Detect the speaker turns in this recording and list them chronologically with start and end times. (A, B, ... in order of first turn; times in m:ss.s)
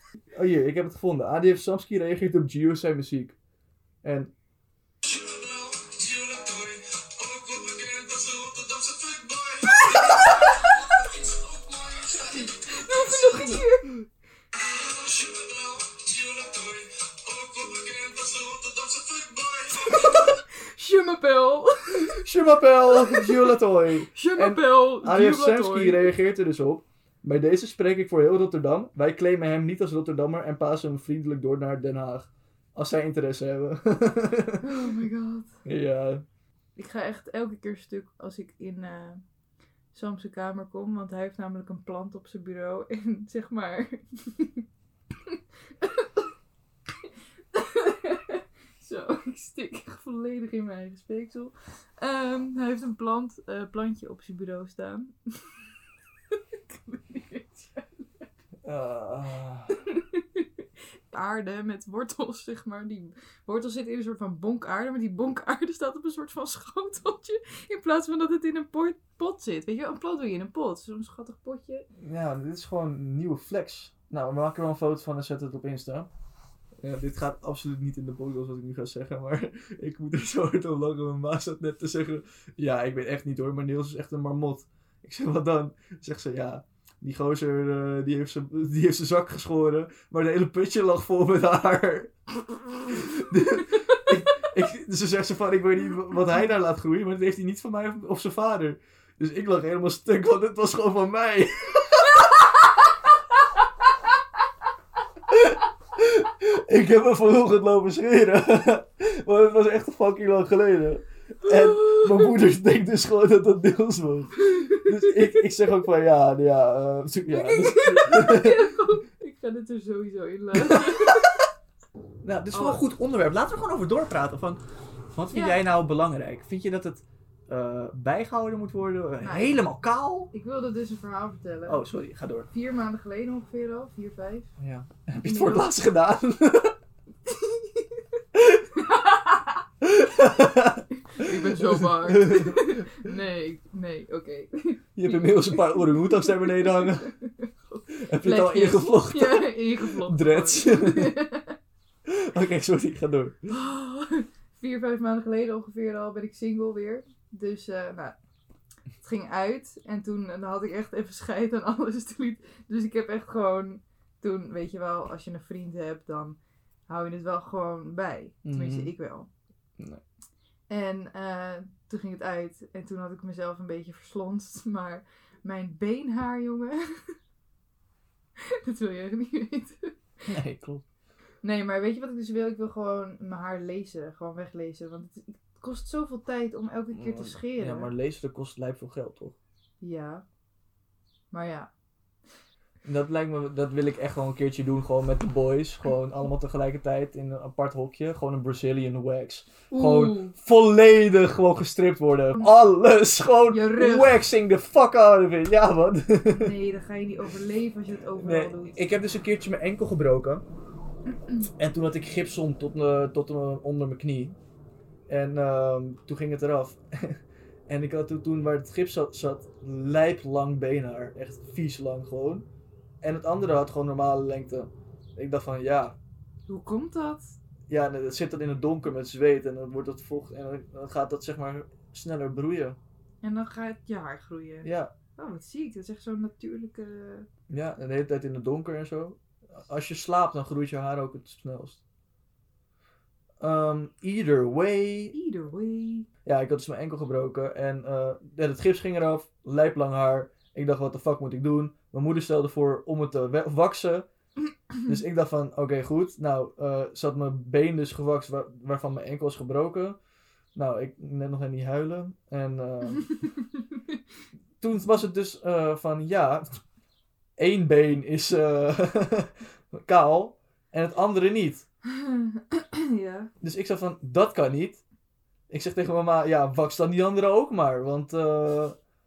0:00.3-0:03.4 A
0:04.0-0:04.3 A
0:05.0-0:20.4 A
0:09.7-0:11.1 B
0:12.3-0:14.0 B
0:19.8-0:22.2 B
0:21.9-0:34.7 A
0:22.9-0:26.1 B
0:34.6-0:35.6 B
0:35.6-0:36.2 A
0:36.8-0:39.2 B
0:39.9-0:44.6 B
0:45.3-0:46.3 B
0:47.5-0:55.6 B
0:56.3-0:58.3 B
0:58.6-0:59.8 A
0:59.8-1:11.9 B
1:12.0-1:16.1 A
1:16.8-1:42.3 A
1:45.3-1:58.7 A
1:51.4-1:52.4 B
1:54.4-1:55.5 B
1:57.3-2:01.4 B
2:00.5-2:01.3 A
2:02.2-2:04.6 A
2:02.5-2:02.8 B
2:05.1-2:10.3 A
2:05.3-2:05.6 B
2:09.2-2:09.6 B
2:10.3-2:11.8 B
2:11.7-2:12.5 A
2:12.5-2:14.5 B
2:14.6-2:16.8 A
2:15.2-2:15.7 B
2:17.3-2:18.2 B
2:18.4-2:18.7 A
2:18.7-2:19.6 B
2:19.8-2:23.1 A
2:20.9-2:31.6 B
2:25.0-2:27.2 A
2:28.0-2:31.2 A
2:32.1-2:33.5 A
2:33.5-2:38.2 B
2:39.0-2:49.3 B
2:48.4-2:48.9 A
2:50.7-2:57.1 B
2:58.4-2:59.9 B
3:00.3-3:00.8 A
3:01.4-3:07.9 B
3:06.9-3:09.4 A
3:09.8-3:10.2 B
3:11.3-3:11.7 B
3:12.8-3:26.6 A
3:19.7-3:20.4 B
3:23.5-3:24.3 B
3:26.3-3:28.8 B
3:28.2-3:30.4 A
3:31.2-3:31.5 B
3:31.6-3:34.4 A
3:35.1-3:42.5 A
3:43.0-3:46.0 A
3:46.5-3:47.4 B
3:47.7-3:52.8 A
3:53.2-3:57.3 B
3:54.6-3:54.9 A
3:57.5-4:01.8 A
4:03.4-4:05.2 A
4:05.1-4:06.1 B
4:06.2-4:14.1 A
4:14.9-4:20.0 A
4:20.6-4:23.3 A
4:24.6-4:26.6 A
4:27.4-4:31.7 A
4:31.9-4:33.3 B
4:33.4-4:34.8 A
4:35.5-4:38.8 A